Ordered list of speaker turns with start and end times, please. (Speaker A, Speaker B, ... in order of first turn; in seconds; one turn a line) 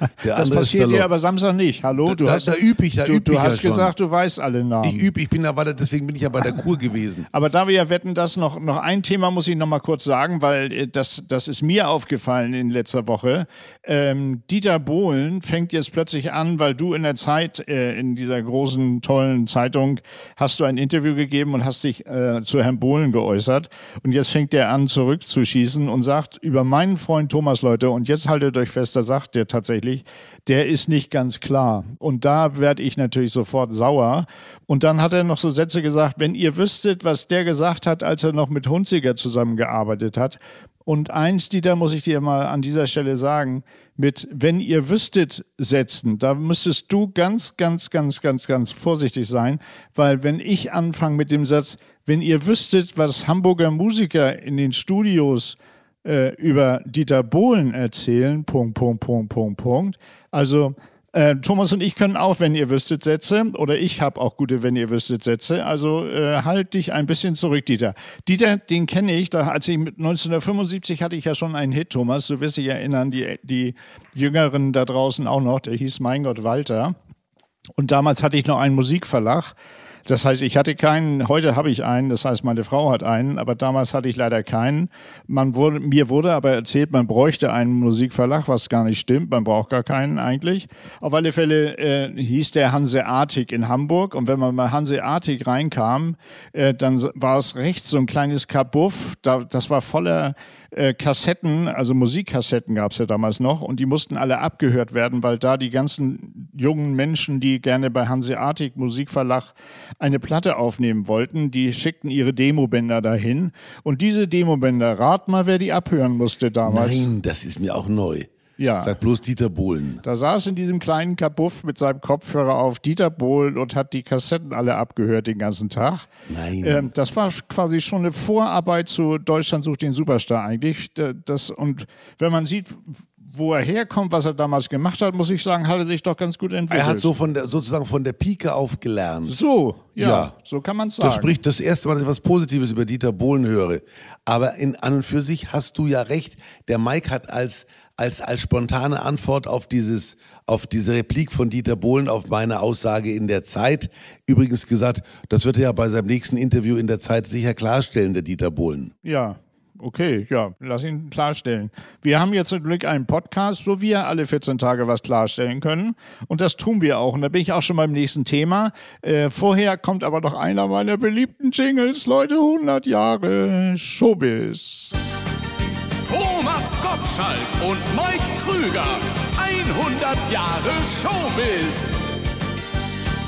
Speaker A: 0.2-1.1
Speaker B: 0.2-5.1
Speaker A: 2.0-3.9
Speaker A: 4.8-7.3
Speaker B: 7.3-76.9
Speaker B: 77.8-79.5
Speaker B: 80.0-117.1
Speaker A: 116.6-118.3
Speaker B: 118.6-118.9
Speaker A: 118.8-120.0
Speaker B: 120.0-126.0
Speaker A: 126.3-126.9
Speaker B: 126.6-137.1
Speaker A: 136.7-139.4
Speaker B: 139.2-141.4
Speaker A: 140.0-140.3
Speaker A: 141.0-158.9
Speaker B: 159.0-174.9
Speaker C: 176.1-182.0